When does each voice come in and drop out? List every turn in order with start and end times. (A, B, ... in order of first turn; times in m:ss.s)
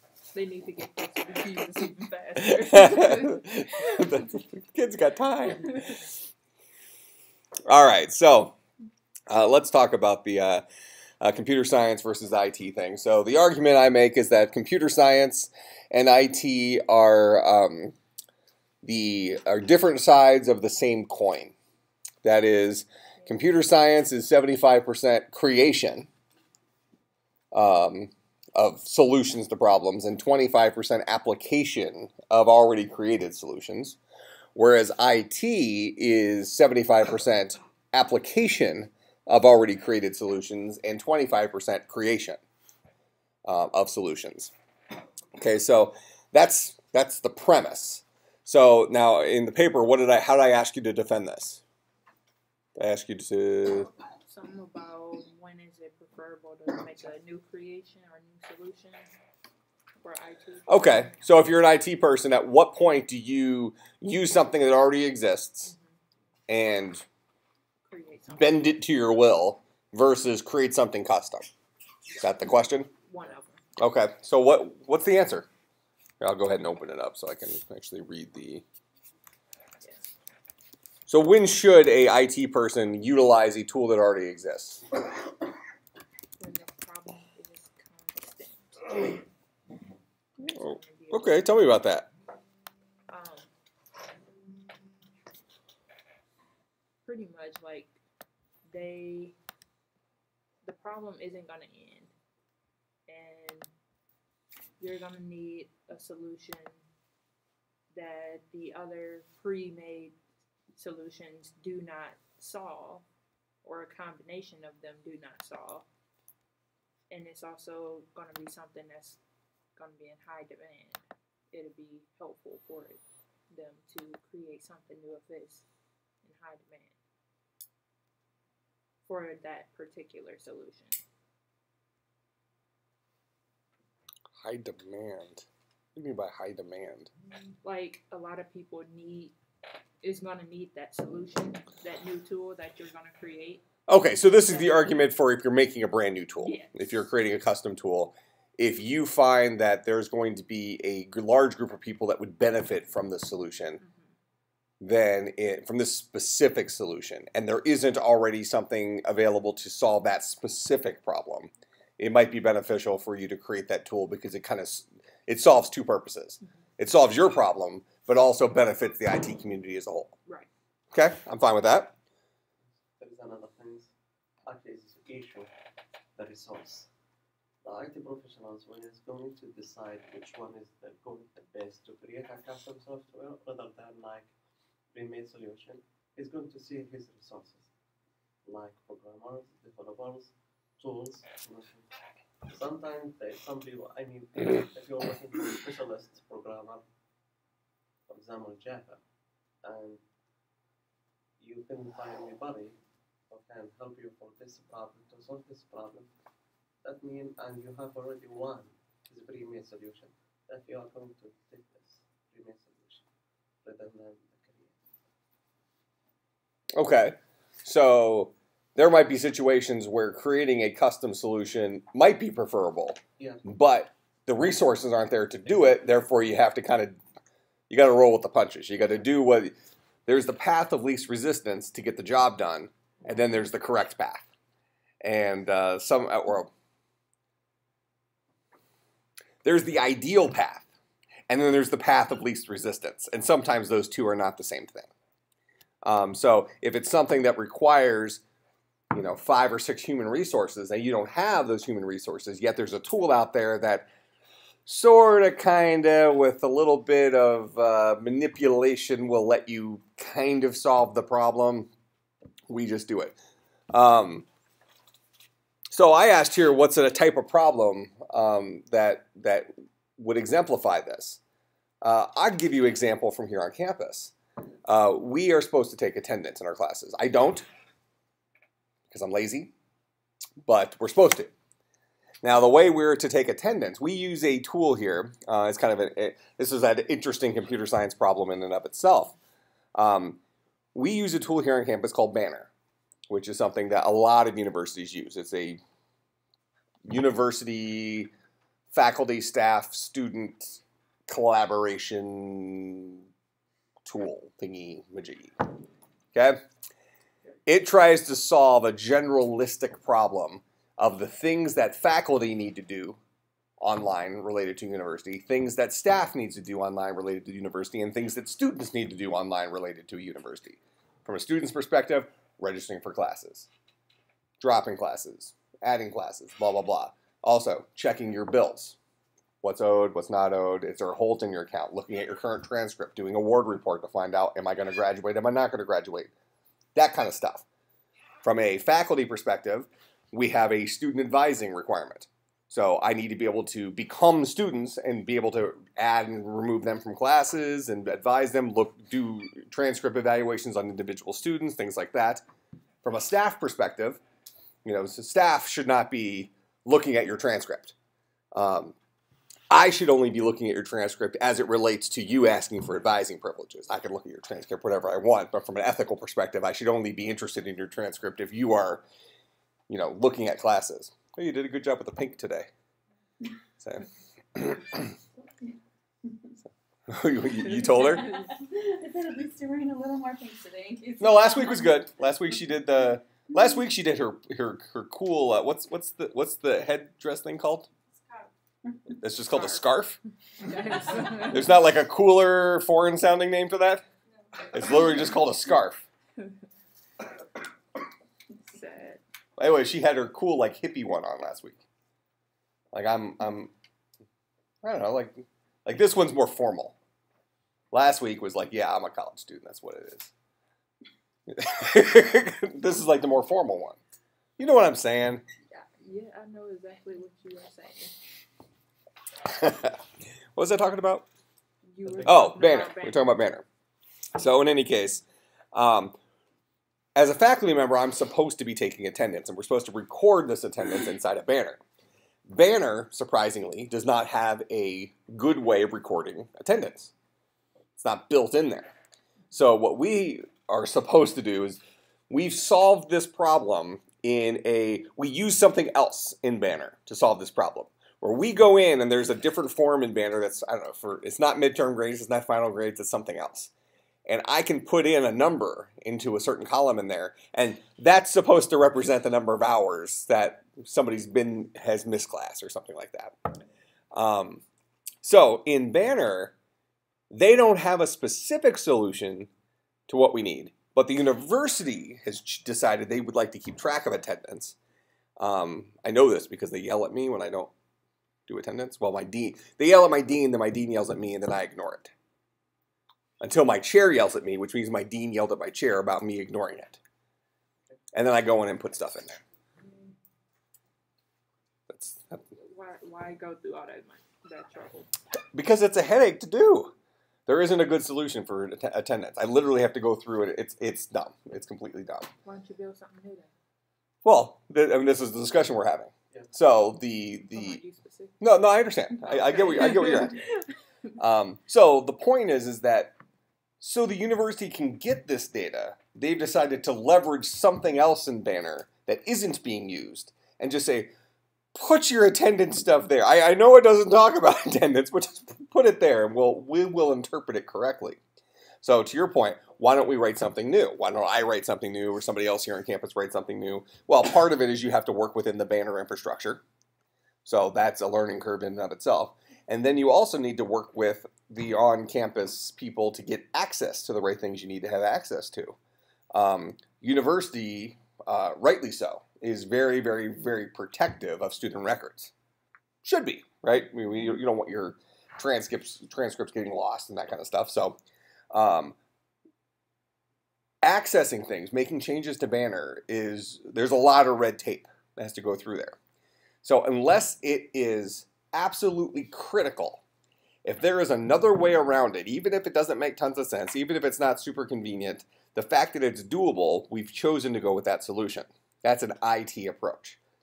0:00.3-0:04.3 A
0:02.4-0:06.1 B
0:05.6-0:06.0 A
0:07.7-0:08.6 B
0:09.3-0:10.6 B
0:11.2-0:17.9 B
0:18.8-0:21.5 B
0:22.2-0:26.1 B
0:27.5-0:34.0 B
0:34.6-0:42.4 B
0:43.4-0:44.5 B
0:45.4-0:51.6 B
0:52.8-0:53.9 B
0:54.3-0:59.1 A
1:00.0-1:01.2 A
1:00.7-1:05.7 B
1:05.7-1:05.9 A
1:06.5-1:07.0 B
1:07.9-1:08.8 A
1:08.3-1:11.5 B
1:12.2-1:12.9 B
1:13.1-1:13.6 A
1:13.8-1:15.5 B
1:16.2-1:18.6 B
1:21.1-1:24.8 B
1:26.4-1:29.1 A
1:30.4-1:31.6 A
1:30.5-1:32.1 B
1:33.1-1:33.5 A
1:37.1-1:38.0 A
1:38.7-1:39.3 A
1:40.6-1:42.1 A
1:43.1-1:43.7 A
1:44.8-1:46.8 A
1:47.9-1:50.2 A
1:50.8-1:53.0 A
1:53.6-1:55.9 A
1:57.1-1:59.2 A
1:59.8-2:05.6 A
2:06.2-2:07.0 A
2:09.1-2:11.0 A
2:14.4-2:17.1 B
2:17.6-2:19.3 A
2:20.0-2:23.6 A
2:23.9-2:33.8 B
2:24.5-2:25.0 A
2:26.4-2:26.8 A
2:33.8-2:34.1 A
2:34.8-2:50.1 B
2:50.9-2:52.0 B
2:53.0-2:53.9 C
2:54.4-2:55.5 C
2:56.2-2:56.9 C
2:57.6-3:04.3 C
3:04.9-3:07.7 C
3:08.4-3:11.9 C
3:12.5-3:16.8 C
3:18.1-3:19.0 C
3:19.6-3:20.0 C
3:21.4-3:22.8 C
3:23.3-3:26.1 C
3:26.8-3:33.0 C
3:33.6-3:34.8 C
3:36.7-3:47.0 B
3:43.2-3:43.4 C
3:47.7-3:49.5 B
3:50.1-3:54.3 B
3:55.0-3:56.5 B
3:59.4-4:00.7 B
4:01.3-4:04.9 B
4:05.8-4:08.2 B
4:08.9-4:13.9 B
4:14.7-4:21.7 B
4:22.5-4:23.2 B
4:23.7-4:24.3 B
4:25.7-4:31.2 B
4:31.8-4:34.1 B
4:34.7-4:37.4 B
4:38.9-4:39.5 B
4:40.4-4:41.3 B
4:42.2-4:49.2 B
4:49.7-4:50.2 B
4:50.7-4:52.5 B
4:53.1-4:55.6 B
4:56.8-4:58.1 B
4:58.7-5:03.0 B
5:03.8-5:05.4 B
5:06.1-5:06.4 B
5:07.5-5:13.0 B
5:13.6-5:23.5 B
5:24.4-5:28.8 B
5:29.4-5:36.1 B
5:36.8-5:37.4 B
5:38.2-5:52.2 B
5:52.8-5:54.0 B
5:54.6-5:57.8 B
5:58.3-5:58.8 B
5:59.5-6:08.8 B
6:09.7-6:12.5 B
6:13.6-6:14.9 B
6:14.8-6:16.3 D
6:16.9-6:18.1 B
6:17.5-6:17.9 A
6:17.9-6:21.9 D
6:21.0-6:27.7 B
6:29.0-6:30.0 B
6:30.4-6:31.5 A
6:31.2-6:33.8 B
6:34.4-6:35.9 B
6:38.4-6:39.0 A
6:39.4-6:41.6 B
6:42.7-6:43.5 B
6:44.6-6:46.8 B
6:47.7-6:50.1 B
6:51.3-6:53.8 B
6:54.4-6:55.2 B
6:55.5-6:58.0 A
6:59.2-6:59.8 B
7:00.4-7:01.1 B
7:01.7-7:03.1 A
7:02.0-7:03.4 B
7:04.2-7:06.0 B
7:07.0-7:11.6 B
7:12.3-7:16.9 B
7:17.8-7:18.7 B
7:19.3-7:33.5 B
7:34.1-7:43.2 B
7:43.9-7:44.4 B
7:45.0-7:46.3 B
7:47.1-7:49.3 B
7:49.9-7:54.6 B
7:55.2-7:57.5 B
7:58.3-8:01.9 B
8:03.2-8:06.8 B
8:07.9-8:09.2 B
8:11.7-8:12.2 B
8:12.4-8:14.9 A
8:15.3-8:16.7 B
8:17.3-8:22.1 B
8:22.2-8:23.3 A
8:24.0-8:27.6 B
8:27.3-8:28.2 A
8:28.2-8:30.2 B
8:29.0-8:30.4 A
8:31.0-8:32.9 B
8:33.6-8:40.9 B
8:41.5-8:48.0 B
8:48.6-8:56.4 B
8:57.2-9:05.6 B
9:06.1-9:12.1 B
9:12.8-9:17.8 B
9:18.3-9:18.8 B
9:20.6-9:25.8 B
9:26.4-9:29.8 B
9:30.4-9:40.0 B